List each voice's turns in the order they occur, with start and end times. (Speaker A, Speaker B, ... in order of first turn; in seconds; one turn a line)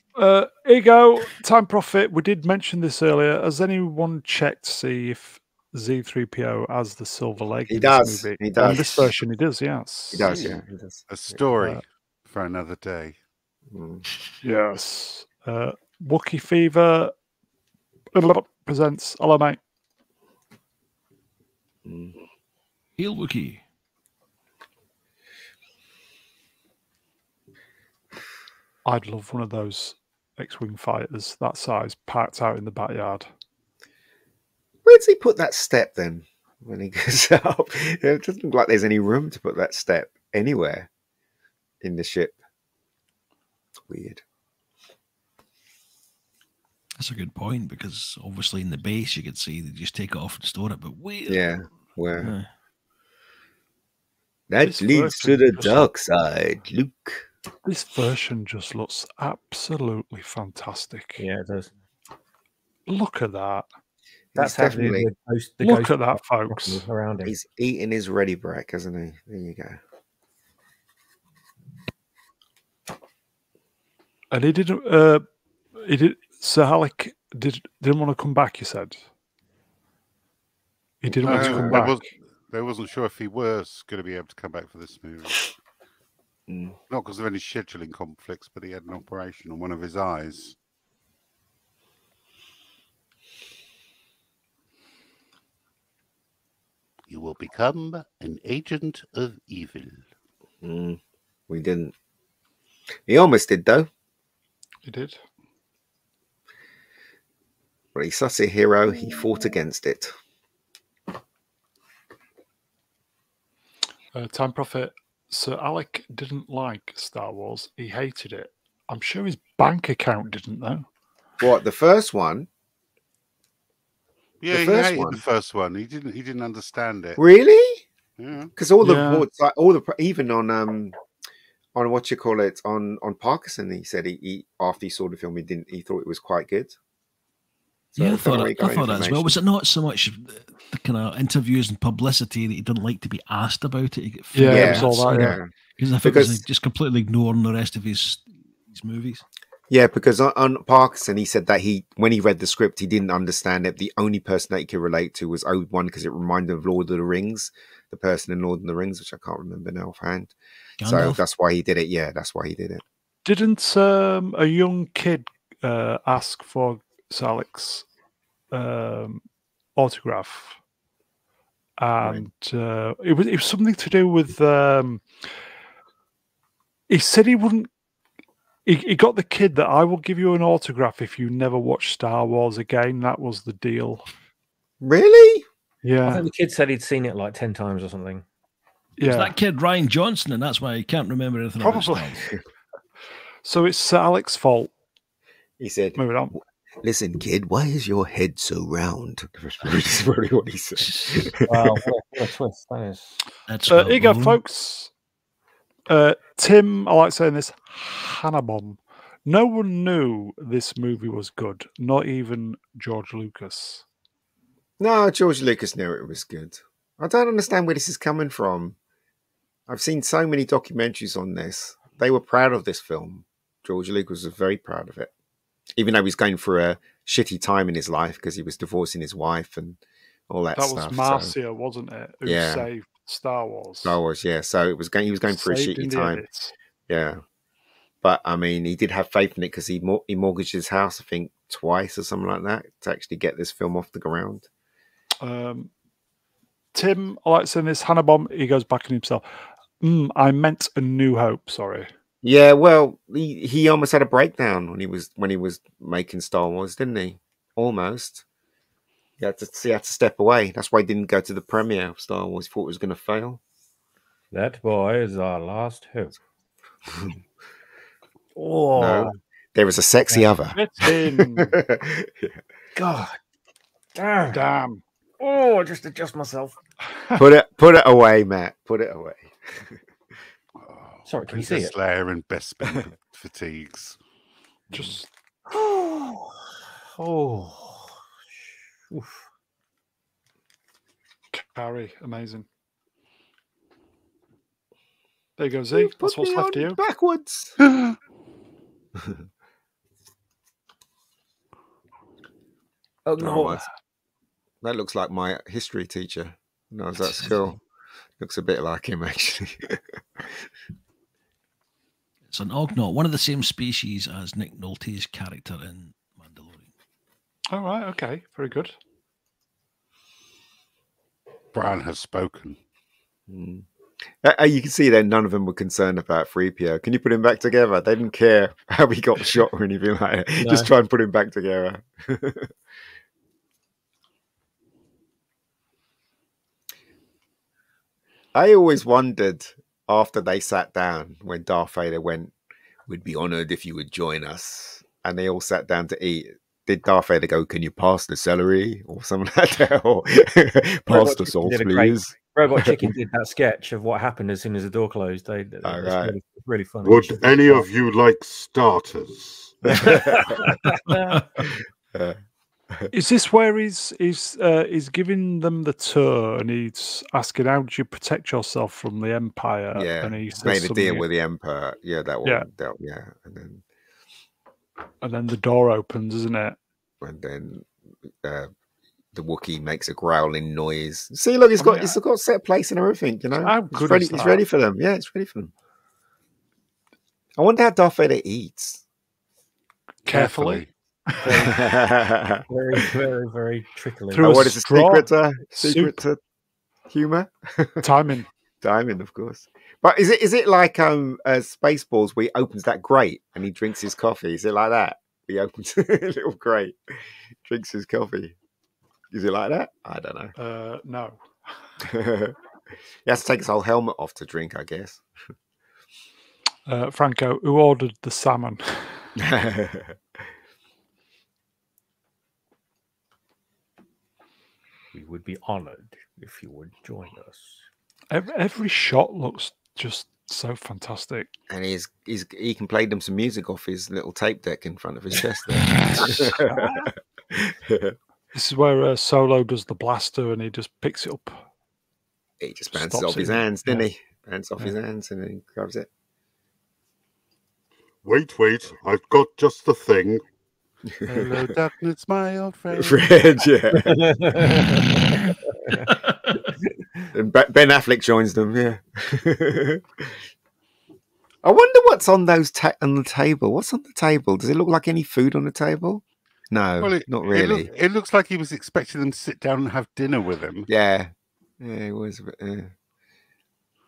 Speaker A: 0.1-10.4
Speaker B: 7.7-9.1
Speaker B: 10.1-11.4
Speaker C: 11.1-13.2
Speaker B: 13.7-14.0
Speaker A: 14.4-17.1
Speaker A: 18.1-19.6
Speaker B: 21.8-22.2
Speaker D: 23.0-23.6
Speaker A: 28.8-33.3
Speaker B: 34.8-40.9
Speaker B: 41.8-42.4
Speaker B: 43.9-44.2
Speaker D: 47.0-51.5
Speaker B: 51.3-52.3
Speaker D: 52.2-52.5
Speaker B: 54.5-57.3
Speaker A: 54.6-55.9
Speaker A: 57.6-61.2
Speaker E: 61.2-61.7
Speaker A: 62.9-63.6
Speaker B: 64.3-65.1
Speaker E: 64.3-67.3
Speaker A: 65.6-66.8
Speaker B: 67.2-69.8
Speaker A: 74.3-75.2
Speaker A: 75.7-79.0
Speaker A: 81.0-82.0
Speaker C: 81.2-85.5
Speaker B: 81.2-81.8
Speaker B: 86.5-86.8
Speaker C: 86.9-90.5
Speaker C: 97.1-100.0
Speaker B: 100.6-101.9
Speaker B: 103.1-103.9
Speaker A: 104.8-105.2
Speaker B: 107.9-110.1
Speaker A: 114.1-120.8
Speaker B: 121.4-122.5
Speaker C: 124.4-127.2
Speaker B: 124.5-125.2
Speaker B: 127.2-127.8
Speaker C: 128.2-128.5
Speaker B: 128.6-130.9
Speaker A: 128.8-129.2
Speaker B: 131.7-136.8
Speaker D: 137.9-149.2
Speaker B: 137.9-139.4
Speaker A: 144.3-145.4
Speaker B: 144.5-145.5
Speaker B: 146.0-146.4
Speaker B: 149.7-162.8
Speaker D: 160.8-161.2
Speaker A: 163.2-167.8
Speaker A: 168.5-169.2
Speaker A: 169.8-170.6
Speaker A: 171.8-175.1
Speaker A: 176.9-177.7
Speaker A: 178.7-184.1
Speaker B: 184.8-185.4
Speaker A: 185.8-186.3
Speaker E: 186.0-188.2
Speaker A: 189.0-189.3
Speaker D: 189.0-192.3
Speaker A: 191.6-192.2
Speaker A: 193.4-194.7
Speaker B: 195.6-201.8
Speaker A: 196.0-196.3
Speaker D: 200.8-201.3
Speaker E: 201.4-203.2
Speaker D: 203.5-204.4
Speaker A: 203.7-204.9
Speaker A: 205.9-213.8
Speaker B: 214.8-218.8
Speaker B: 219.7-225.1
Speaker B: 225.8-231.3
Speaker A: 230.5-234.0
Speaker B: 232.2-232.7
Speaker B: 233.8-236.2
Speaker A: 235.3-236.5
Speaker B: 236.9-237.2
Speaker B: 238.0-244.5
Speaker A: 245.2-245.7
Speaker A: 246.7-249.2
Speaker A: 249.8-251.9
Speaker B: 252.2-258.2
Speaker B: 259.2-263.4
Speaker E: 264.3-266.2
Speaker E: 268.4-269.1
Speaker B: 268.7-270.6
Speaker A: 270.5-271.6
Speaker B: 271.2-272.4
Speaker E: 272.7-273.2
Speaker E: 273.9-274.4
Speaker A: 274.3-274.8
Speaker E: 275.2-276.6
Speaker B: 277.1-279.8
Speaker C: 280.6-284.0
Speaker E: 281.1-281.7
Speaker A: 284.7-285.1
Speaker E: 285.5-287.9
Speaker E: 288.9-289.2
Speaker A: 291.3-292.5
Speaker A: 295.4-296.8
Speaker B: 295.7-297.6
Speaker B: 298.9-299.2
Speaker E: 303.1-303.6
Speaker B: 303.2-303.6
Speaker B: 304.6-307.6
Speaker D: 307.0-307.4
Speaker B: 308.2-310.5
Speaker D: 312.3-316.7
Speaker A: 317.5-318.8
Speaker C: 321.5-322.6
Speaker B: 323.3-323.6
Speaker B: 324.2-332.5
Speaker E: 330.4-330.7
Speaker B: 338.3-342.3
Speaker B: 342.9-352.9
Speaker E: 350.9-357.7
Speaker B: 355.6-356.1
Speaker C: 356.8-359.6
Speaker B: 359.6-360.4
Speaker E: 359.7-361.2
Speaker A: 362.9-371.1
Speaker B: 369.7-373.6
Speaker A: 375.0-376.6
Speaker B: 377.0-377.7
Speaker B: 378.2-378.5
Speaker B: 379.1-385.5
Speaker A: 381.6-381.9
Speaker A: 383.4-384.4
Speaker B: 387.4-388.8
Speaker C: 390.1-390.7
Speaker A: 390.1-391.6
Speaker E: 391.2-391.7
Speaker B: 391.3-392.4
Speaker E: 392.5-394.4
Speaker A: 394.1-396.0
Speaker B: 394.2-396.2
Speaker B: 396.9-397.9
Speaker A: 397.8-398.3
Speaker B: 398.6-408.3
Speaker B: 409.1-410.3
Speaker A: 410.4-411.4
Speaker B: 411.8-412.4
Speaker B: 413.0-415.0
Speaker A: 416.7-419.1
Speaker B: 419.2-420.0
Speaker E: 424.9-427.6
Speaker A: 428.1-431.3
Speaker B: 431.5-437.9
Speaker A: 436.3-436.6
Speaker A: 438.3-441.4
Speaker B: 442.4-445.9
Speaker A: 442.7-443.9
Speaker C: 448.0-450.2
Speaker B: 450.9-451.4
Speaker C: 451.0-453.1
Speaker B: 452.7-454.4
Speaker E: 453.7-454.8
Speaker B: 457.1-460.2
Speaker B: 461.4-467.7
Speaker C: 466.8-470.7
Speaker B: 470.7-472.7